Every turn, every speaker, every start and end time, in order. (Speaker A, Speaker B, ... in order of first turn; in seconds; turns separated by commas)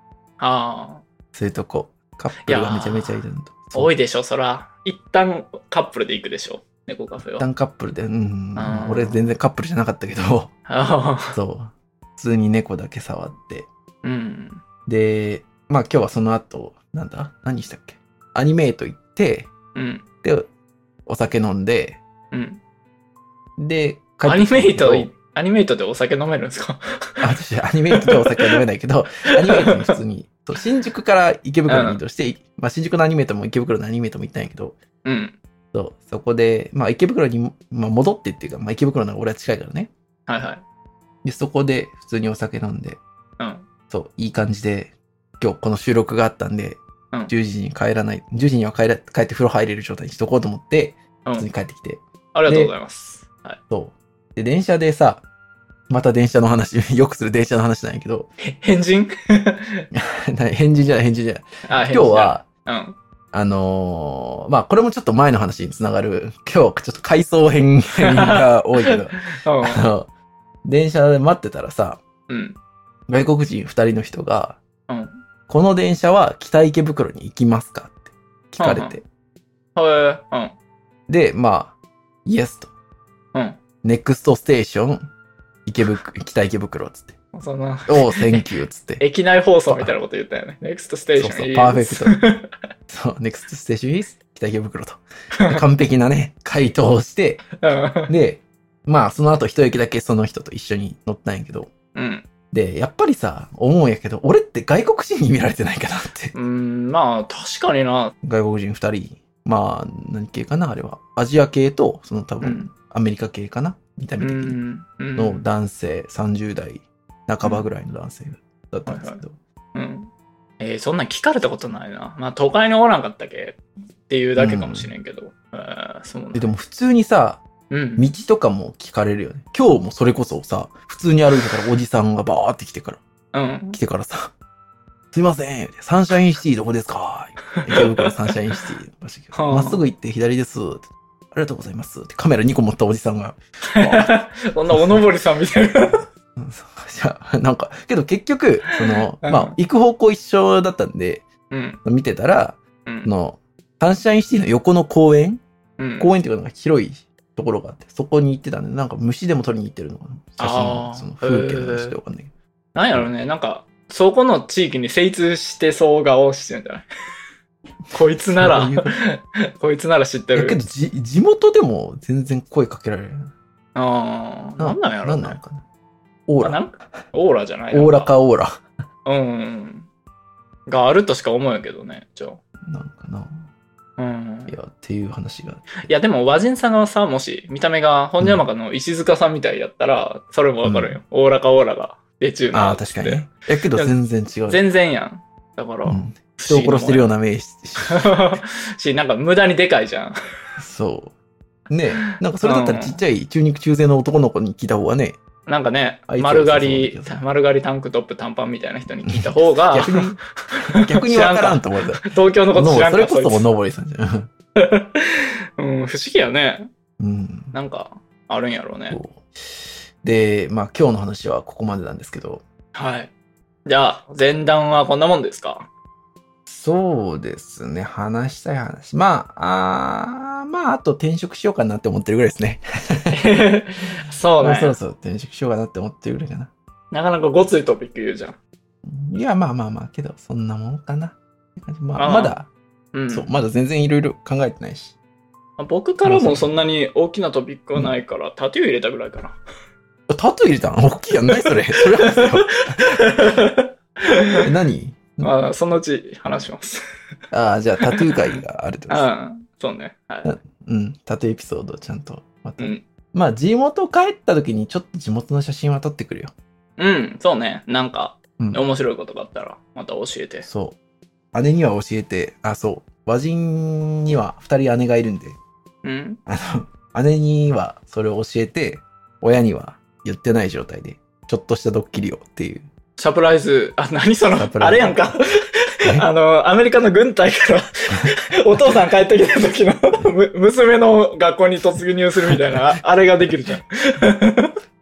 Speaker A: 0.4-1.1, Speaker B: 1.3-3.9, Speaker A: 2.5-3.2, Speaker A: 3.7-7.5, Speaker B: 7.4-10.5, Speaker A: 8.6-9.3, Speaker A: 10.7-11.4, Speaker B: 11.3-13.7, Speaker A: 14.0-14.6, Speaker B: 14.9-19.5, Speaker A: 19.8-20.1, Speaker B: 20.2-20.5, Speaker B: 21.1-22.0, Speaker A: 22.3-22.6, Speaker B: 23.6-25.1, Speaker A: 24.2-27.3, Speaker B: 27.2-34.8, Speaker A: 27.9-28.6, Speaker A: 31.7-32.0, Speaker A: 35.0-35.4, Speaker B: 35.7-39.9, Speaker A: 40.3-40.6, Speaker B: 41.2-43.0, Speaker A: 43.4-43.7, Speaker B: 43.9-52.8, Speaker A: 52.3-53.6, Speaker B: 53.7-55.2, Speaker B: 55.9-58.3, Speaker A: 58.4-59.9, Speaker B: 59.9-62.5, Speaker A: 61.7-63.0, Speaker B: 63.3-70.1, Speaker A: 68.1-69.8, Speaker B: 70.7-72.0, Speaker A: 72.3-72.6, Speaker B: 73.1-74.6, Speaker A: 74.9-75.2, Speaker B: 75.5-79.0, Speaker A: 78.6-79.0, Speaker A: 79.8-80.6, Speaker B: 81.1-82.7, Speaker A: 83.3-83.6, Speaker B: 83.8-85.1, Speaker B: 85.7-87.2, Speaker A: 87.3-88.5, Speaker B: 87.9-89.0, Speaker A: 89.0-92.5, Speaker B: 89.7-89.9, Speaker B: 91.2-92.2, Speaker B: 92.9-97.5, Speaker A: 97.6-98.1, Speaker B: 98.1-101.7, Speaker A: 102.0-102.3, Speaker B: 102.5-106.3, Speaker A: 106.3-108.1, Speaker B: 108.2-114.6, Speaker A: 112.4-112.7, Speaker A: 114.2-115.5, Speaker B: 115.2-119.4, Speaker A: 117.4-117.7, Speaker A: 118.9-119.2, Speaker A: 119.7-126.5, Speaker B: 124.4-124.9, Speaker B: 126.3-127.5, Speaker A: 127.7-128.2, Speaker B: 128.0-133.0, Speaker A: 133.3-133.8, Speaker B: 133.7-134.3, Speaker B: 135.1-144.1, Speaker A: 137.6-138.1, Speaker A: 139.3-139.8, Speaker A: 143.8-146.1, Speaker B: 144.7-145.1, Speaker B: 146.4-151.3, Speaker A: 149.2-149.6, Speaker A: 151.5-151.8, Speaker B: 151.8-155.4, Speaker A: 155.8-156.1, Speaker B: 156.0-162.3, Speaker A: 160.4-162.0, Speaker A: 162.8-166.9, Speaker A: 167.9-170.6, Speaker B: 168.4-168.9, Speaker B: 170.3-173.3, Speaker A: 173.8-175.4, Speaker B: 174.6-175.6, Speaker B: 176.3-176.6, Speaker A: 176.4-178.1, Speaker B: 177.7-178.6, Speaker A: 179.1-179.9, Speaker A: 180.7-182.4, Speaker B: 182.7-183.5, Speaker A: 184.0-184.5, Speaker B: 184.5-185.6, Speaker A: 185.8-193.9, Speaker B: 188.2-188.4, Speaker B: 190.6-191.0, Speaker B: 192.5-194.6, Speaker A: 194.5-197.1, Speaker B: 195.9-198.4, Speaker A: 197.9-200.2, Speaker B: 200.6-201.1, Speaker B: 201.7-205.2, Speaker A: 201.9-203.0, Speaker A: 205.5-213.5, Speaker B: 206.1-207.2, Speaker B: 209.0-210.2, Speaker B: 210.8-214.3, Speaker A: 214.6-216.7, Speaker B: 217.0-217.6, Speaker A: 217.5-219.0, Speaker B: 218.9-222.4, Speaker A: 222.7-223.1, Speaker A: 223.7-225.7, Speaker B: 226.5-233.2, Speaker A: 233.1-234.8, Speaker B: 234.4-236.5, Speaker A: 236.9-238.4, Speaker B: 238.9-242.5, Speaker A: 242.0-242.4, Speaker A: 242.9-243.3, Speaker B: 243.1-245.0, Speaker A: 245.6-249.4, Speaker B: 246.0-246.5, Speaker B: 250.1-252.7, Speaker A: 251.3-254.5, Speaker B: 254.4-255.3, Speaker A: 255.2-256.8, Speaker B: 257.3-259.1, Speaker A: 257.8-258.1, Speaker A: 258.9-260.3, Speaker B: 260.2-266.3, Speaker A: 262.6-262.8, Speaker A: 266.8-270.5, Speaker B: 270.4-270.8, Speaker B: 271.3-275.4, Speaker A: 275.8-276.2, Speaker B: 276.3-282.7, Speaker A: 283.0-294.5, Speaker B: 284.4-285.0, Speaker B: 292.2-292.7